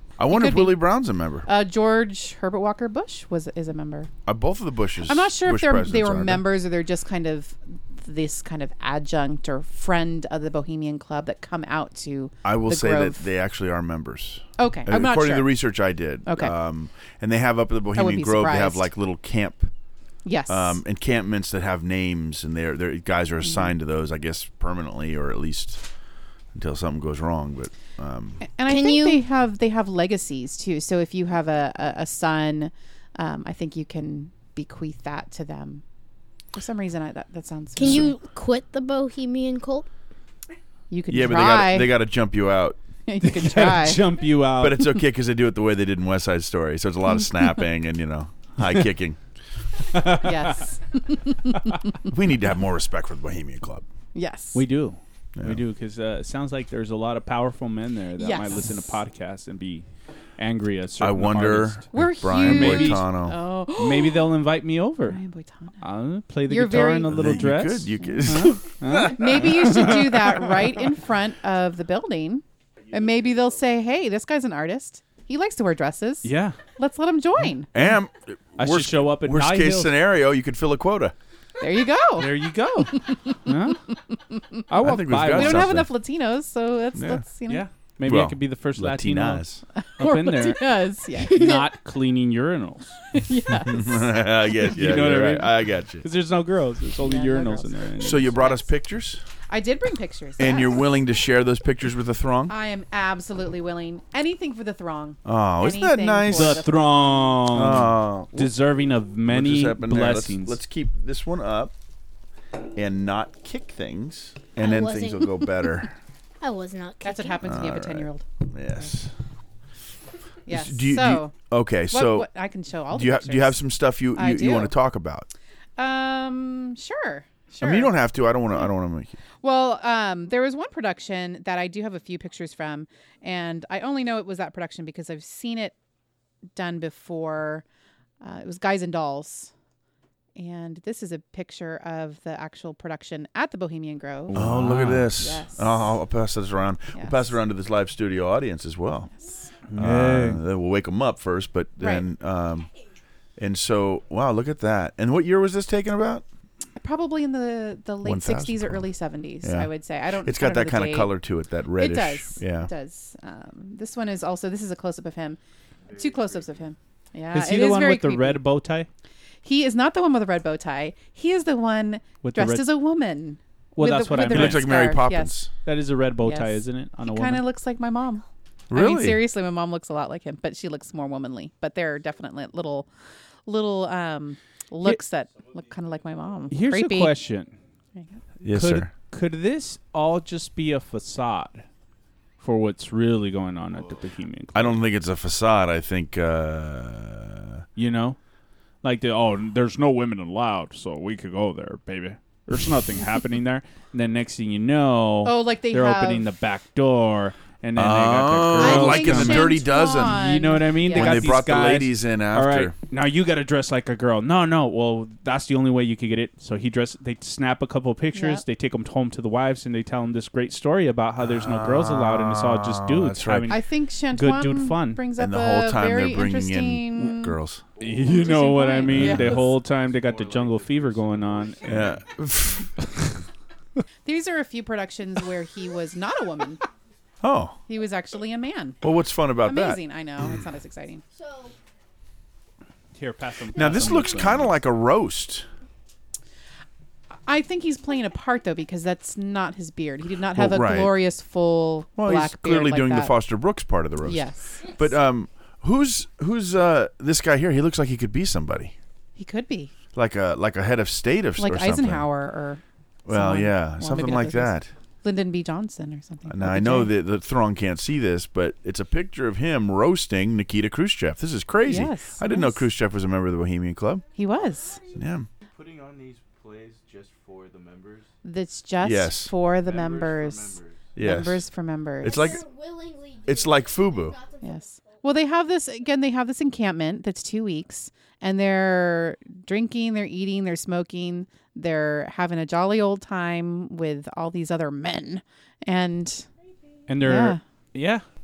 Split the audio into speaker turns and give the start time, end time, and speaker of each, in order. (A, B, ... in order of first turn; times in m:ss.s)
0:00.2-0:01.5 A
0:00.3-0:00.9 B
0:01.4-0:04.1 B
0:04.2-0:06.4 A
0:05.0-0:13.3 B
0:12.4-0:19.7 A
0:14.6-0:15.6 B
0:16.2-0:16.5 B
0:17.9-0:18.9 B
0:20.2-0:20.8 B
0:20.5-0:25.8 A
0:26.5-0:28.4 A
0:28.4-0:35.8 B
0:28.7-0:29.2 C
0:36.5-0:38.1 B
0:37.8-0:39.9 C
0:37.8-0:38.1 A
0:40.9-0:42.0 B
0:41.1-0:42.8 A
0:43.1-0:44.0 B
0:43.2-0:45.0 D
0:44.6-0:49.2 A
0:49.9-0:50.4 D
0:50.2-0:52.0 B
0:52.1-0:53.8 A
0:54.1-0:54.6 B
0:54.5-0:59.8 D
0:55.4-0:55.6 A
0:58.2-0:58.8 B
1:00.4-1:03.0 D
1:01.0-1:03.4 A
1:01.9-1:04.3 B
1:03.7-1:05.2 D
1:05.0-1:05.8 B
1:05.8-1:10.6 D
1:06.5-1:07.4 B
1:07.1-1:09.4 A
1:08.0-1:17.7 B
1:16.2-1:16.6 D
1:17.7-1:21.1 A
1:18.6-1:19.9 D
1:21.6-1:23.4 B
1:22.2-1:23.8 D
1:24.7-1:25.8 D
1:24.8-1:25.9 A
1:25.3-1:27.6 B
1:27.0-1:27.2 A
1:27.5-1:29.4 D
1:28.0-1:29.6 A
1:29.8-1:31.6 B
1:30.0-1:33.1 D
1:33.1-1:34.1 B
1:33.6-1:36.0 A
1:34.6-1:38.3 D
1:37.0-1:37.8 B
1:38.0-1:39.2 A
1:38.4-1:38.6 B
1:39.5-1:40.9 B
1:40.4-1:42.5 A
1:42.5-1:47.5 B
1:45.2-1:46.6 A
1:46.3-1:50.6 D
1:47.5-1:48.5 A
1:49.3-1:51.7 A
1:52.8-1:55.9 A
1:54.6-1:55.5 C
1:56.4-1:57.4 C
1:57.0-1:58.2 B
1:57.4-1:59.1 A
2:00.4-2:01.3 B
2:00.5-2:02.3 A
2:01.9-2:03.6 B
2:02.9-2:05.3 A
2:04.1-2:04.8 B
2:05.8-2:08.0 B
2:07.6-2:09.2 A
2:09.4-2:15.7 B
2:16.5-2:17.6 B
2:18.2-2:19.5 B
2:20.4-2:24.4 B
2:24.3-2:25.1 D
2:24.3-2:29.1 A
2:25.2-2:25.9 B
2:26.9-2:27.3 B
2:29.1-2:29.5 B
2:29.7-2:30.4 D
2:29.7-2:32.7 A
2:31.8-2:32.1 B
2:33.4-2:36.2 A
2:36.8-2:41.1 B
2:38.0-2:38.9 A
2:39.4-2:42.7 A
2:41.8-2:45.4 B
2:45.9-2:46.6 E
2:45.9-2:48.4 B
2:47.3-2:48.9 D
2:49.4-2:55.4 B
2:52.2-2:52.8 D
2:53.8-2:54.9 D
2:54.3-2:55.5 A
2:55.6-2:57.4 D
2:56.2-3:02.9 B
2:58.7-2:59.2 A
3:03.4-3:07.1 B
3:06.5-3:07.5 D
3:08.4-3:08.9 A
3:08.5-3:11.6 D
3:12.4-3:14.8 D
3:14.5-3:17.6 A
3:17.8-3:18.2 D
3:18.8-3:45.0 D
3:25.2-3:26.2 B
3:27.8-3:32.7 A
3:28.6-3:31.3 B
3:38.1-3:38.4 B
3:41.2-3:43.6 A
3:43.5-3:47.4 B
3:45.2-3:47.6 A
3:47.8-3:48.4 E
3:47.8-3:51.9 D
3:48.0-3:49.6 B
3:48.9-3:49.2 A
3:49.0-3:52.0 E
3:51.6-3:52.7 A
3:54.0-3:56.6 B
3:57.2-3:57.6 A
3:57.7-3:58.8 B
3:58.8-3:59.8 A
3:59.4-4:01.0 B
4:03.0-4:04.5 D
4:03.5-4:05.4 A
4:07.3-4:13.2 B
4:10.3-4:11.0 A
4:12.0-4:18.7 A
4:14.0-4:14.7 B
4:19.2-4:19.7 B
4:19.9-4:22.1 A
4:21.4-4:26.9 B
4:23.0-4:24.7 A
4:26.3-4:34.1 A
4:31.6-4:32.6 B
4:34.1-4:34.8 B
4:34.9-4:35.3 A
4:35.5-4:38.1 E
4:38.2-4:42.4 B
4:38.8-4:39.3 A
4:39.5-4:41.0 E
4:40.9-4:41.4 A
4:42.0-4:42.4 A
4:42.4-4:43.1 C
4:43.2-4:44.2 A
4:44.4-4:56.3 B
4:56.9-4:58.0 D
4:57.0-4:57.4 B